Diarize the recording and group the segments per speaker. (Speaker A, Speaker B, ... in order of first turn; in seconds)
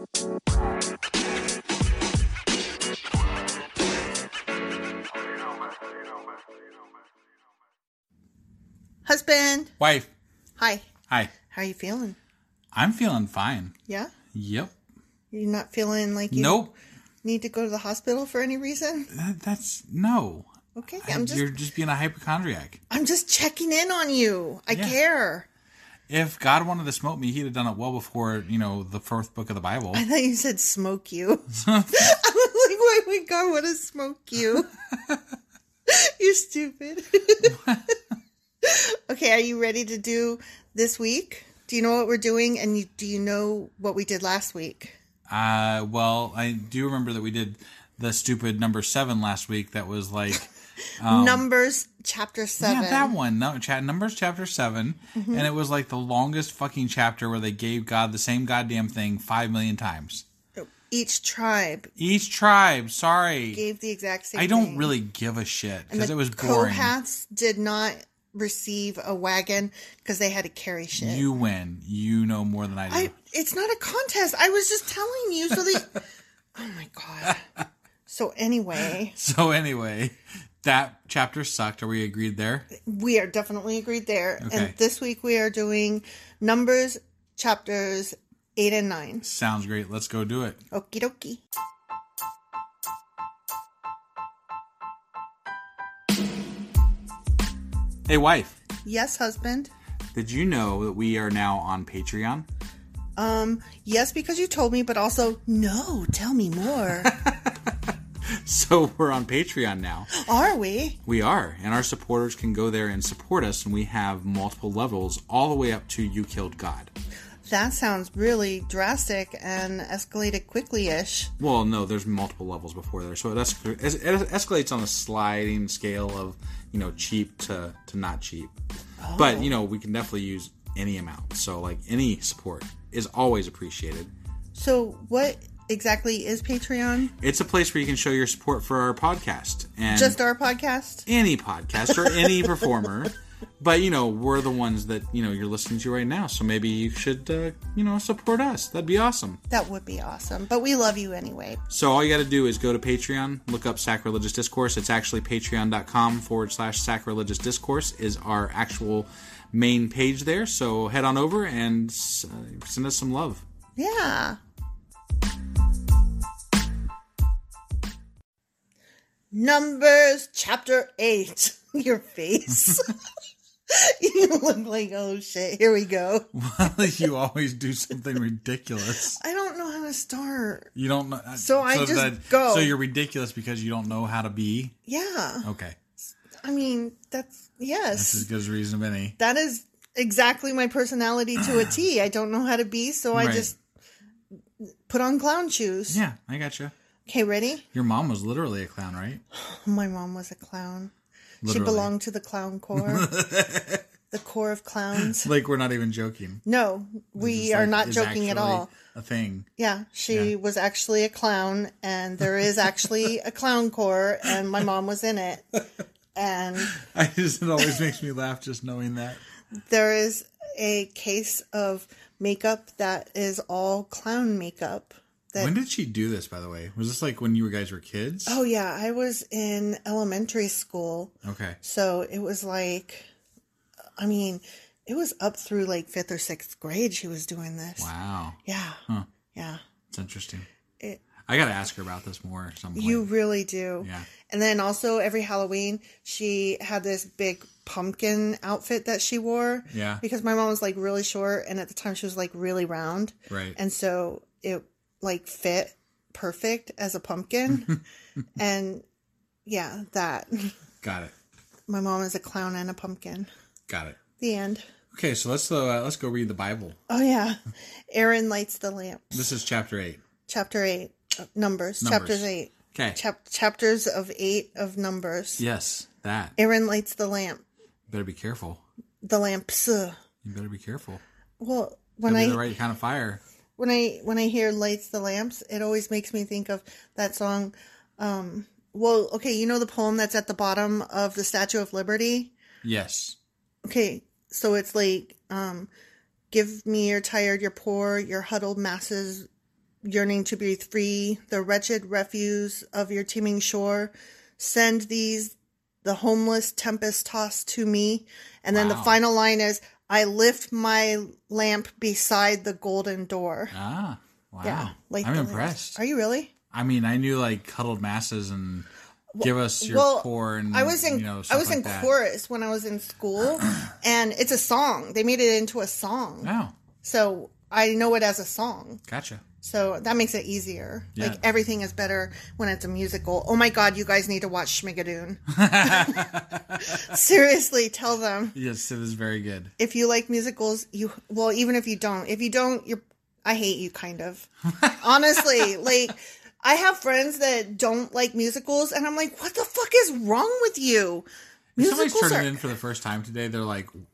Speaker A: 9.0-9.7, 10.6-10.9, 11.5-12.2, 13.9-14.1, 15.3-16.7, 17.2-19.1, 20.7-21.4, 22.9-25.4, 29.9-34.7, 35.9-37.6, 38.6-45.0, 51.0-53.1, 55.1-55.5, 60.6-61.9, 63.5-64.9, 65.9-71.3, 72.9-76.0, 76.5-77.4, 78.1-79.2, 82.7-89.2, 90.7-91.4, 98.8-99.7, 103.2-107.2, 110.1-111.0, 117.5-121.3, 129.0-129.5, 134.5-137.1, 139.9-141.0, 149.5-151.6, 163.8-164.4, 169.3-172.9, 173.7-176.7, 179.0-180.7, 181.3-182.7, 184.9-185.4, 186.4-188.3, 189.2-193.5, 194.6-196.0, 197.1-197.6, 199.3-200.9, 201.4-203.1, 204.1-205.3, 206.4-208.7, 209.6-215.6, 216.1-216.8, 219.7-225.5, 228.3-233.1, 234.0-237.9, 238.4-238.8, 239.3-239.6, 242.7-257.7, 258.4-258.8, 259.4-260.5, 261.7-263.3, 264.2-264.6, 266.9-269.2, 270.3-275.4, 276.4-277.4, 279.0-280.0, 281.4-282.5, 283.6-292.3, 293.6-295.7, 296.3-299.3, 299.8-313.5, 314.4-316.3, 319.1-326.3, 326.8-328.8, 329.4-338.4, 339.6-351.1, 351.6-352.4
Speaker B: 9.8-10.1, 12.7-13.7, 14.3-14.7, 16.3-16.7, 19.1-20.5, 21.0-22.8, 24.7-25.0, 26.1-30.0, 31.5-32.0, 34.9-35.2, 37.4-37.8, 45.3-51.5, 52.6-60.2, 62.0-63.6, 64.3-66.9, 71.0-73.1, 79.1-82.7, 84.4-84.7, 89.2-90.6, 98.1-98.6, 100.1-102.5, 107.0-110.1, 111.0-116.9, 121.4-128.5, 129.2-134.1, 137.2-140.2, 141.1-149.4, 151.7-163.4, 176.3-179.2, 180.7-184.7, 185.4-185.8, 187.9-189.2, 191.4-191.7, 193.1-193.5, 195.9-196.7, 197.7-199.2, 201.4-201.9, 202.7-203.8, 205.0-206.4, 207.2-209.5, 212.2-212.9, 216.7-219.2, 225.4-228.4, 231.2-231.6, 237.8-239.1, 239.9-240.5, 241.2-243.1, 243.8-244.1, 249.7-250.0, 253.3-253.6, 257.5-257.8, 260.8-261.1, 263.7-264.0, 264.9-266.8, 269.1-270.0, 271.8-273.0, 275.4-276.4, 277.9-278.6, 280.2-281.0, 282.0-283.2, 292.6-293.2, 308.5-309.0, 313.5-315.8, 316.5-318.7, 319.2-321.9, 326.2-326.5, 328.9-329.2, 330.9-331.2, 335.3-337.0, 338.3-339.5, 344.5-345.5, 351.6-353.7